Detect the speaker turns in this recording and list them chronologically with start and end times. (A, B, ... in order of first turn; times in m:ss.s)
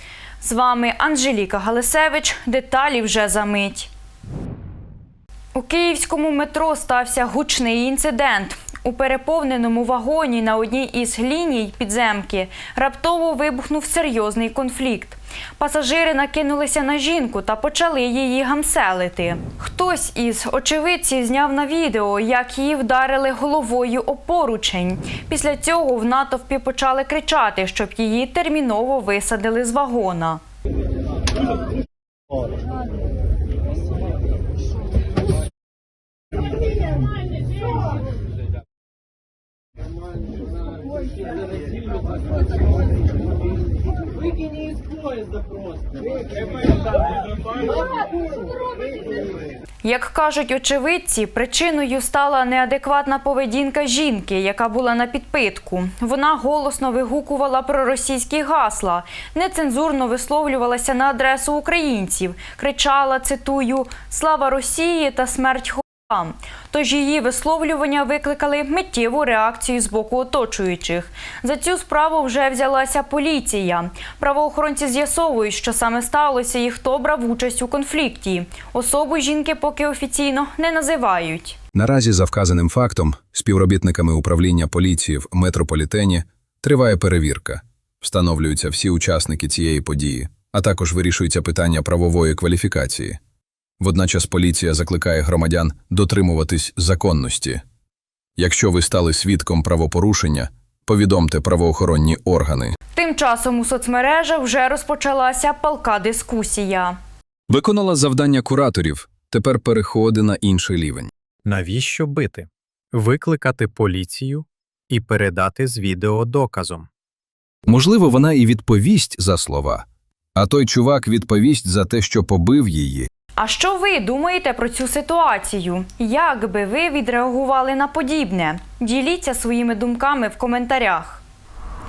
0:00.4-0:03.9 A
0:05.5-0:30.4 A
0:49.8-1:21.6 A
1:21.8-1:33.2 B
1:33.8-1:37.6 B
1:38.4-1:42.7 B
1:43.0-1:47.0 A
1:47.5-1:51.1 B
1:51.4-1:56.9 C
1:57.7-2:03.1 B
2:03.4-2:11.2 A